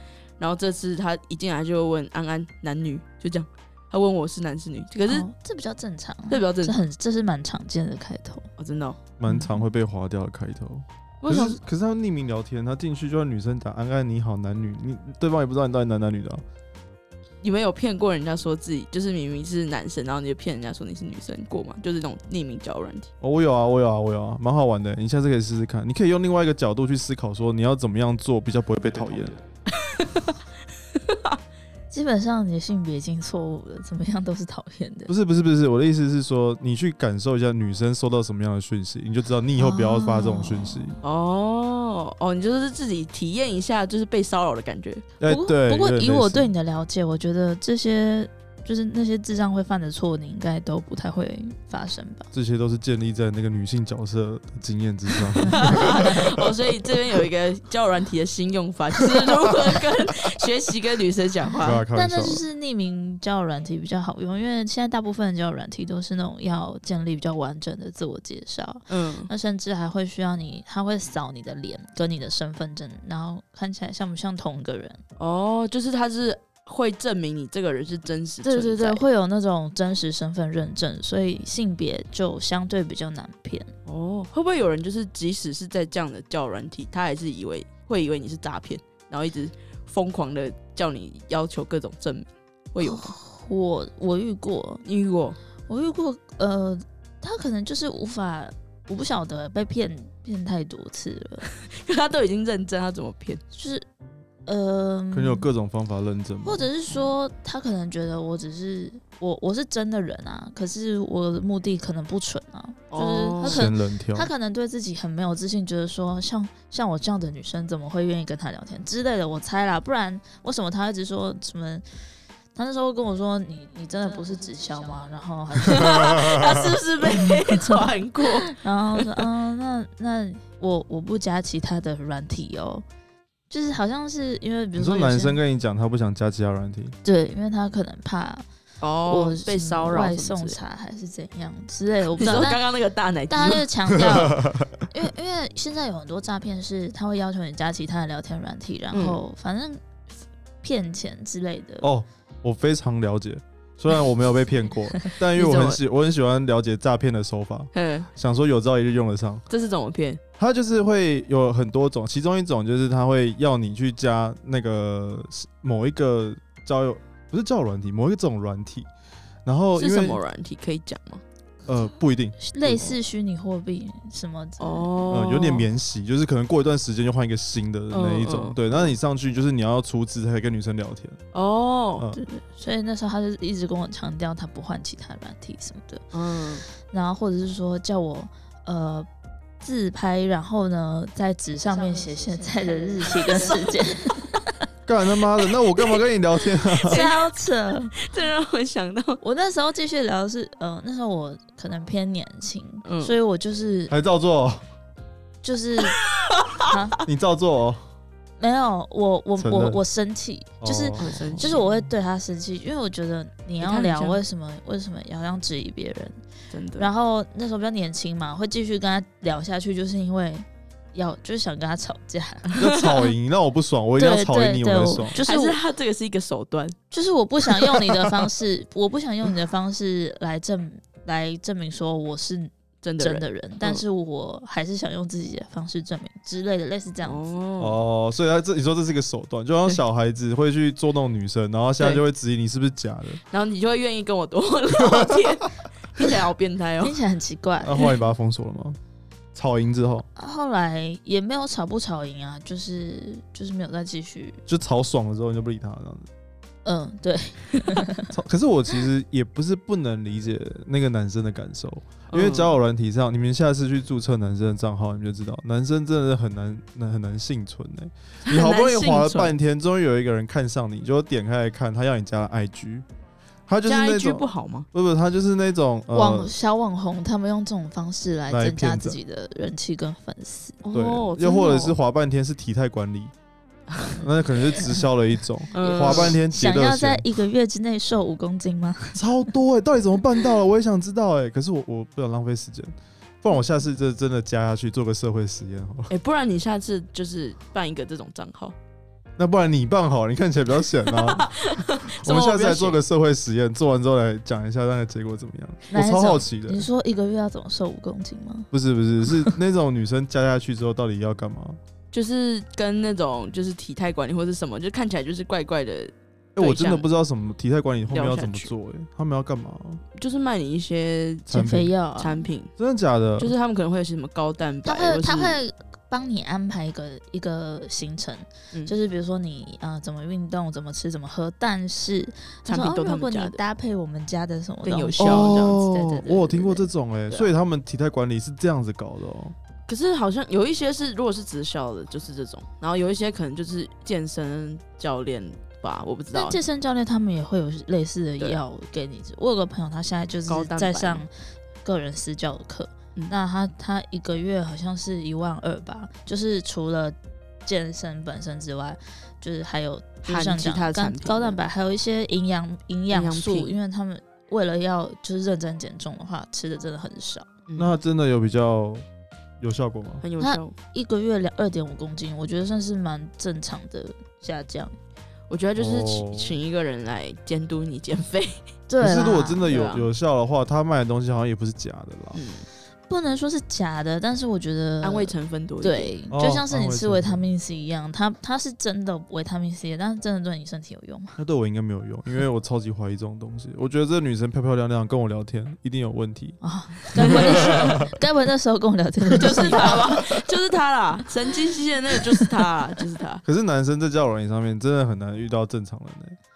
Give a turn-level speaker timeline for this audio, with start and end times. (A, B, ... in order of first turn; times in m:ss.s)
0:00.4-0:05.3 A
0:05.1-0:08.5 B
0:06.3-0:06.8 A
0:08.6-0:09.0 A
0:09.2-0:16.4 C
0:11.2-0:11.6 A
0:17.4-0:23.1 A
0:23.2-0:29.4 C
0:29.7-0:30.4 A
0:30.9-0:31.4 A
0:31.9-0:35.1 B
0:35.1-0:41.0 C
0:39.6-0:40.9 B
0:41.0-0:45.0 A
0:45.2-0:46.5 C
0:45.3-0:52.3 B
0:52.3-0:56.3 C
0:55.3-1:01.8 A
0:55.6-0:56.0 B
1:01.6-1:02.4 C
1:01.9-1:15.0 B
1:08.9-1:09.3 A
1:15.2-1:19.0 A
1:18.4-1:23.7 B
1:23.8-1:33.1 A
1:32.8-1:34.8 B
1:34.8-1:35.4 A
1:35.7-1:41.5 B
1:41.4-1:43.4 A
1:43.5-1:43.8 B
1:44.4-1:45.4 B
1:45.1-1:46.7 C
1:46.4-2:01.8 B
1:52.9-1:53.7 A
1:53.4-1:54.3 C
2:02.6-2:06.5 B
2:05.7-2:09.2 A
2:07.3-2:12.8 B
2:13.5-2:15.4 B
2:14.8-2:16.9 C
2:17.0-2:18.4 B
2:18.8-2:20.6 A
2:19.1-2:22.6 B
2:22.1-2:23.6 A
2:23.3-2:29.8 B
2:23.9-2:24.8 C
2:28.9-2:29.2 A
2:30.6-2:31.9 B
2:31.8-2:39.4 C
2:35.3-2:35.8 A
2:37.7-2:38.1 A
2:39.5-2:40.2 A
2:40.4-2:48.9 C
2:49.4-2:50.2 C
2:49.8-2:51.2 A
2:51.6-2:53.0 C
2:52.4-2:55.3 B
2:54.6-2:55.6 A
2:55.1-3:01.2 C
2:57.9-2:58.9 A
3:01.3-3:02.0 A
3:02.1-3:06.1 B
3:06.1-3:06.6 A
3:06.9-3:09.1 B
3:09.6-3:14.6 B
3:13.1-3:14.3 A
3:14.8-3:17.0 C
3:16.6-3:17.2 A
3:16.9-3:18.0 B
3:17.9-3:19.2 A
3:19.2-3:23.9 B
3:22.8-3:23.2 A
3:23.9-3:24.6 C
3:25.4-3:26.0 B
3:25.8-3:26.8 A
3:26.6-3:27.0 B
3:27.0-3:27.8 C
3:28.4-3:36.2 B
3:29.4-3:29.8 C
3:30.6-3:31.6 C
3:31.0-3:31.6 A
3:33.6-3:34.2 A
3:36.5-3:36.9 A
3:36.8-3:42.5 B
3:42.5-3:43.1 A
3:42.6-3:45.2 C
3:44.0-3:45.6 B
3:45.2-3:46.8 A
3:46.9-3:57.3 B
3:47.4-3:48.3 A
3:52.8-3:53.8 A
3:57.0-3:57.8 A
3:57.6-4:03.2 C
4:03.3-4:07.0 A
4:06.8-4:07.9 B
4:07.6-4:08.8 C
4:09.3-4:10.0 C
4:10.2-4:14.4 B
4:14.5-4:16.1 C
4:16.6-4:18.1 B
4:18.1-4:32.8 C
4:22.1-4:22.6 A
4:28.2-4:29.3 A
4:33.5-4:36.3 C
4:33.6-4:34.7 A
4:35.9-4:40.6 B
4:38.3-4:39.0 C
4:40.6-4:41.8 A
4:40.7-4:43.1 C
4:43.7-4:44.0 A
4:44.0-4:47.1 C
4:45.5-4:46.2 A
4:45.6-4:49.0 B
4:48.9-4:55.9 C
4:55.9-4:58.6 A
4:59.2-5:06.7 C
5:00.8-5:02.8 A
5:05.7-5:08.5 B
5:08.5-5:11.6 C
5:11.9-5:16.8 A
5:16.4-5:19.8 C
5:17.9-5:18.5 A
5:19.9-5:21.4 A
5:21.3-5:21.7 C
5:21.3-5:22.3 B
5:21.9-5:22.5 A
5:22.6-5:23.3 C
5:23.2-5:25.4 A
5:24.6-5:36.7 B
5:32.4-5:33.4 A
5:34.6-5:35.6 A
5:35.0-5:39.3 C
5:39.7-5:46.4 A
5:46.1-5:51.1 B
5:50.3-5:51.0 A
5:51.6-6:07.3 B
6:00.0-6:01.4 A
6:02.9-6:03.6 A
6:07.6-6:08.8 C
6:09.4-6:10.0 C
6:10.0-6:10.5 A
6:10.2-6:14.8 B
6:15.3-6:18.5 A
6:15.6-6:16.4 C
6:18.7-6:19.5 B
6:18.8-6:22.2 C
6:19.3-6:19.9 A
6:22.1-6:22.4 A
6:22.9-6:31.2 B
6:24.8-6:25.9 A
6:26.1-6:27.3 C
6:31.2-6:36.4 C
6:36.4-6:40.2 B
6:37.0-6:37.8 C
6:37.0-6:37.8 A
6:39.1-6:43.2 A
6:43.2-6:46.2 C